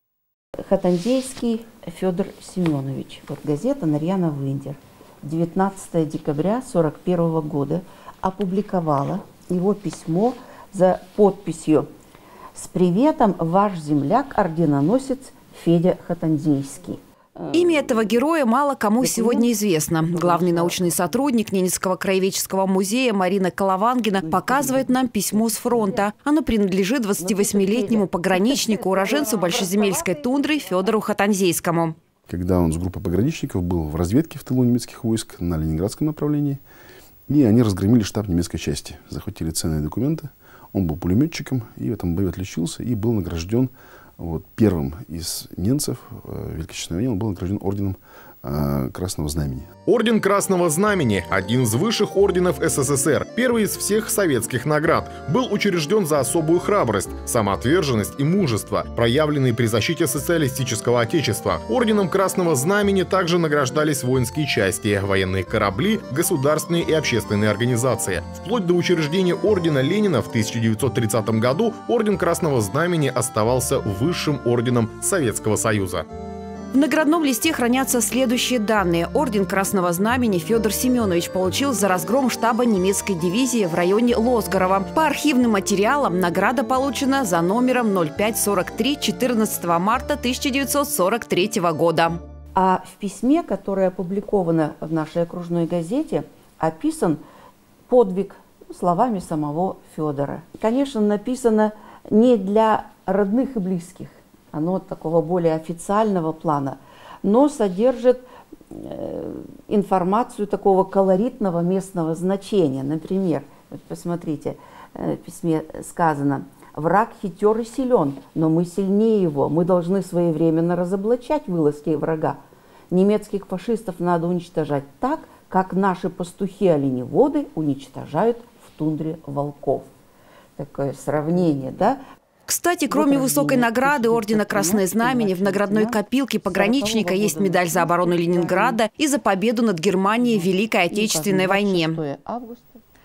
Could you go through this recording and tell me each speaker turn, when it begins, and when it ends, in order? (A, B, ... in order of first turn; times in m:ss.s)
0:00.6-0:11.9 A
0:12.6-0:18.1 A
0:17.5-0:32.0 B
0:19.0-0:21.2 A
0:24.2-0:26.1 A
0:27.2-0:30.3 A
0:32.3-0:36.6 C
0:37.3-0:49.7 C
0:49.9-1:16.0 D
1:16.7-1:32.2 B
1:32.6-1:37.2 A
1:37.9-2:02.4 A
2:02.9-2:09.9 A
2:10.6-2:12.0 A
2:12.5-2:22.0 B
2:12.9-2:18.8 A
2:20.2-2:22.8 A